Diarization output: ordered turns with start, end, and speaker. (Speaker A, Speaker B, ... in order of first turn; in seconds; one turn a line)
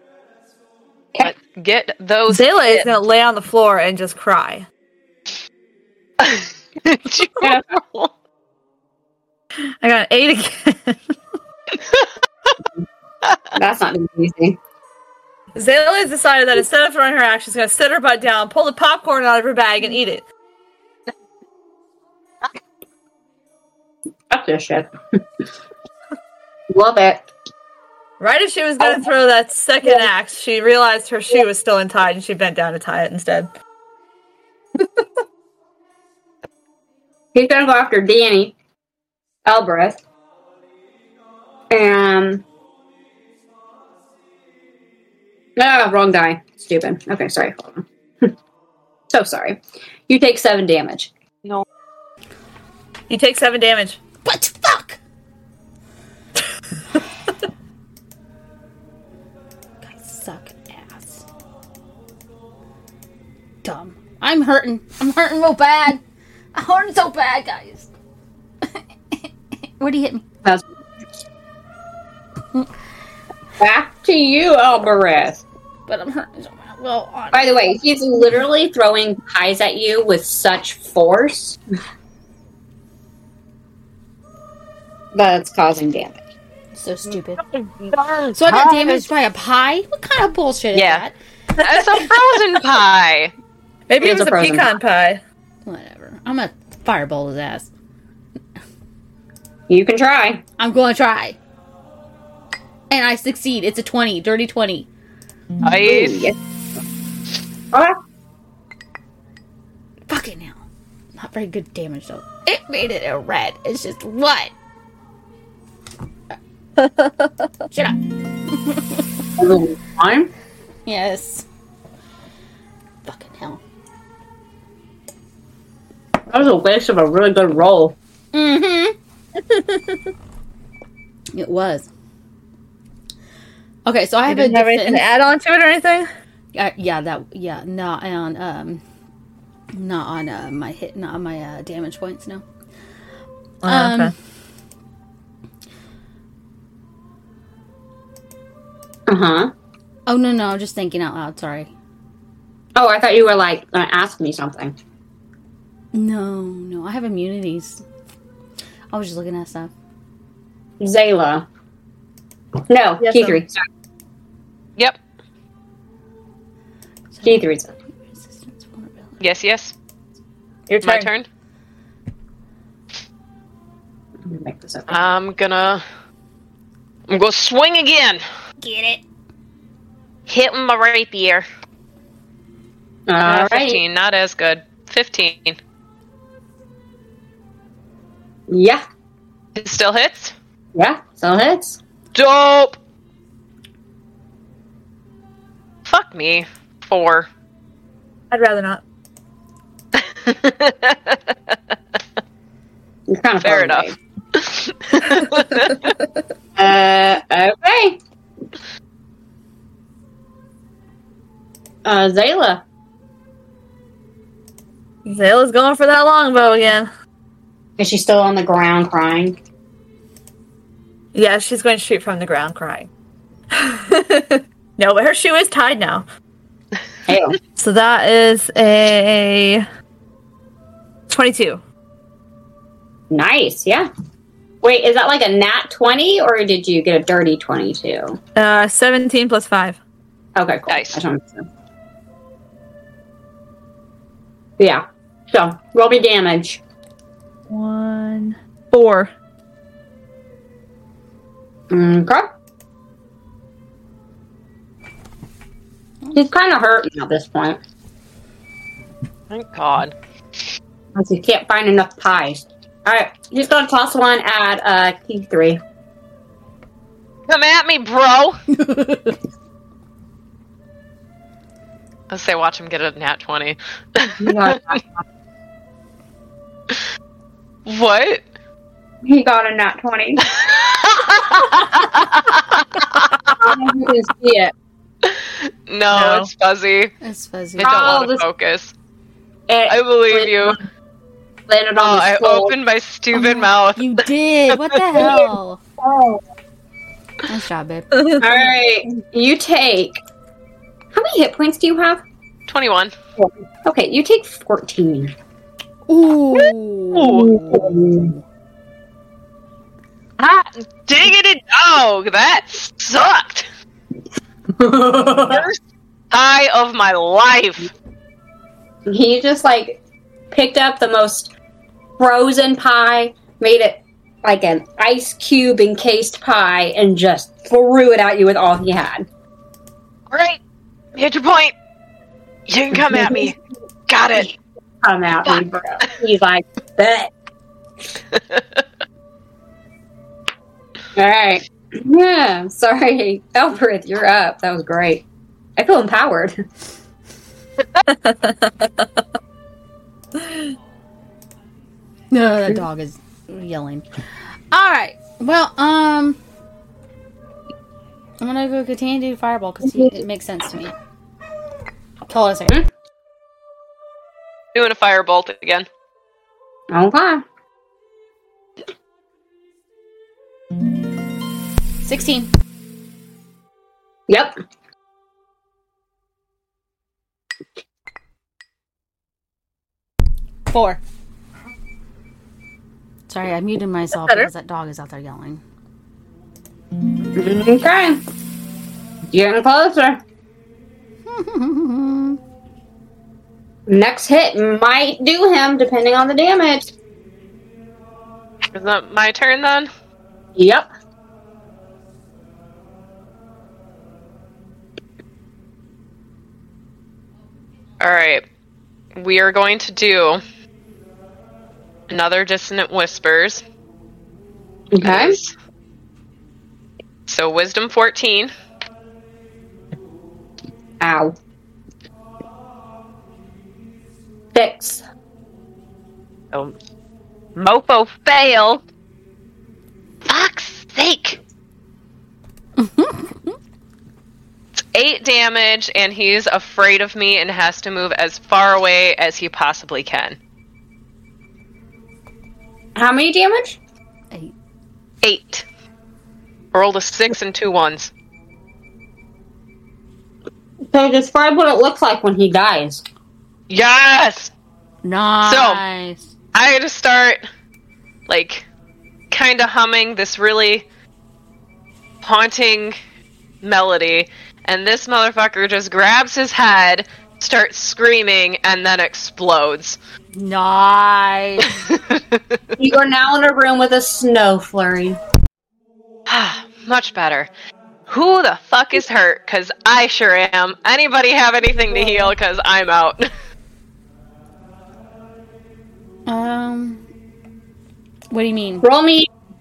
Speaker A: 1.2-2.9
Speaker B: 2.3-4.7
Speaker A: 6.2-8.1
Speaker B: 9.8-11.2
Speaker A: 11.7-12.1
Speaker A: 13.2-13.5
Speaker C: 13.6-14.6
Speaker B: 15.6-20.2
Speaker C: 24.3-25.2
Speaker C: 26.7-27.3
Speaker B: 28.2-33.5
Speaker C: 28.8-29.1
Speaker C: 37.4-38.5
Speaker C: 39.5-40.0
Speaker C: 41.7-42.4
Speaker C: 45.6-48.3
Speaker C: 49.1-51.1
Speaker B: 53.1-54.0
Speaker D: 54.2-55.0
Speaker D: 59.8-61.2
Speaker D: 63.6-66.0
Speaker D: 66.5-67.9
Speaker D: 69.8-70.2
Speaker C: 73.6-75.4
Speaker D: 75.9-77.5
Speaker C: 77.3-81.6
Speaker C: 85.1-86.2
Speaker D: 86.8-87.4
Speaker A: 87.5-89.1
Speaker D: 88.3-91.2
Speaker A: 90.7-91.0
Speaker A: 91.6-93.3
Speaker B: 93.9-95.2
Speaker C: 94.0-94.7
Speaker D: 95.7-97.7
Speaker C: 99.7-100.4
Speaker D: 100.6-101.4
Speaker D: 102.9-104.9
Speaker A: 105.6-106.3
Speaker C: 105.8-106.4
Speaker C: 107.7-108.0
Speaker D: 110.1-110.6
Speaker D: 111.2-114.5
Speaker B: 116.8-117.5
Speaker D: 117.7-119.0
Speaker C: 119.4-120.3
Speaker D: 120.9-121.5
Speaker D: 123.0-123.6
Speaker C: 126.3-128.0
Speaker D: 128.3-129.0
Speaker D: 131.3-131.9
Speaker D: 133.9-135.1
Speaker B: 134.3-136.1
Speaker D: 136.5-138.8
Speaker D: 139.7-142.4
Speaker B: 143.6-144.1
Speaker D: 143.7-144.1
Speaker C: 149.1-149.5
Speaker D: 150.1-151.7
Speaker C: 152.8-154.8
Speaker D: 155.9-157.8
Speaker D: 158.9-159.7
Speaker C: 160.8-161.5
Speaker C: 162.7-163.6
Speaker B: 163.0-163.4
Speaker D: 167.2-167.4
Speaker C: 167.2-167.7
Speaker D: 168.0-169.2
Speaker A: 169.2-169.8
Speaker B: 170.7-171.1
Speaker A: 170.8-171.3
Speaker C: 174.2-175.1
Speaker A: 174.9-175.8
Speaker A: 177.1-178.2
Speaker D: 178.6-179.0
Speaker A: 180.3-181.4
Speaker C: 183.1-183.8
Speaker A: 183.2-185.6
Speaker C: 188.5-188.8
Speaker A: 189.6-190.3
Speaker C: 190.8-191.8
Speaker A: 192.2-192.8
Speaker A: 195.9-197.3
Speaker B: 198.3-198.8
Speaker A: 199.9-201.6
Speaker C: 203.1-203.9
Speaker A: 203.4-205.9
Speaker C: 206.6-208.0
Speaker C: 211.8-212.6
Speaker B: 215.1-216.9
Speaker C: 217.8-219.4
Speaker B: 221.1-222.9
Speaker B: 223.5-226.1
Speaker C: 227.1-227.4
Speaker B: 227.6-229.7
Speaker B: 231.1-231.6
Speaker C: 233.1-233.9
Speaker C: 234.6-238.2
Speaker B: 238.4-239.8
Speaker C: 240.4-241.5
Speaker A: 240.7-241.0
Speaker C: 244.6-246.6
Speaker B: 247.5-249.1
Speaker C: 251.7-252.3
Speaker C: 256.1-257.6
Speaker A: 259.3-259.9
Speaker C: 260.9-265.6
Speaker A: 267.3-268.4
Speaker D: 268.5-269.2
Speaker A: 272.1-274.8
Speaker C: 274.2-275.0
Speaker A: 277.7-278.2
Speaker C: 279.0-280.3
Speaker A: 280.3-283.0
Speaker C: 283.3-284.5
Speaker A: 285.0-286.9
Speaker B: 285.9-286.3
Speaker D: 287.0-287.9
Speaker A: 287.6-288.7
Speaker C: 287.6-288.2
Speaker C: 289.5-290.6
Speaker A: 289.7-290.6
Speaker C: 291.5-292.6
Speaker A: 291.8-294.6
Speaker D: 293.1-295.6
Speaker C: 295.8-296.2
Speaker D: 297.3-298.4
Speaker B: 297.9-298.2
Speaker C: 298.2-300.0
Speaker C: 300.9-302.0
Speaker A: 302.5-302.9
Speaker C: 303.6-305.1
Speaker D: 305.9-308.1
Speaker A: 306.3-307.3
Speaker C: 307.3-308.1
Speaker A: 310.2-313.5
Speaker C: 314.6-315.5
Speaker A: 315.2-315.6
Speaker A: 316.1-317.7
Speaker C: 318.9-319.8
Speaker C: 320.3-321.3
Speaker C: 322.0-329.1
Speaker A: 330.1-330.4
Speaker A: 330.9-331.5
Speaker A: 332.5-333.4
Speaker C: 332.9-333.2
Speaker A: 333.9-334.3
Speaker C: 334.8-337.1
Speaker A: 338.1-338.6
Speaker C: 341.0-345.0
Speaker C: 345.6-346.4
Speaker B: 347.9-348.9
Speaker B: 350.2-350.4
Speaker D: 352.1-353.9
Speaker D: 354.5-356.2
Speaker D: 358.2-360.7
Speaker D: 362.1-362.6
Speaker A: 364.6-365.7
Speaker C: 366.7-367.2
Speaker D: 371.8-372.3
Speaker C: 374.1-374.4
Speaker D: 380.5-380.8
Speaker D: 383.1-385.4
Speaker B: 384.0-384.3
Speaker C: 387.1-388.0
Speaker C: 389.1-390.0
Speaker D: 391.1-392.2
Speaker C: 393.7-396.7
Speaker A: 398.5-399.7
Speaker C: 400.4-400.7
Speaker A: 407.8-408.2
Speaker A: 409.0-410.2
Speaker A: 411.9-413.4
Speaker C: 414.7-415.2
Speaker A: 414.8-415.3
Speaker A: 417.1-418.3
Speaker C: 420.8-421.1
Speaker C: 424.3-424.8
Speaker A: 427.4-428.6
Speaker A: 430.1-431.2
Speaker D: 432.6-433.3
Speaker A: 434.6-440.2
Speaker C: 442.8-443.6
Speaker A: 445.0-445.4
Speaker A: 446.5-447.9
Speaker C: 450.7-452.8
Speaker A: 453.5-454.3
Speaker D: 454.8-456.1
Speaker A: 455.2-455.6
Speaker A: 456.3-457.2
Speaker A: 458.1-458.5
Speaker A: 459.1-460.7
Speaker A: 462.0-462.8
Speaker A: 463.4-469.8
Speaker D: 470.1-471.6
Speaker A: 471.4-472.4
Speaker C: 472.6-475.0
Speaker A: 476.1-477.3
Speaker A: 477.9-483.1
Speaker D: 486.1-486.8
Speaker D: 488.1-488.6
Speaker C: 488.6-489.1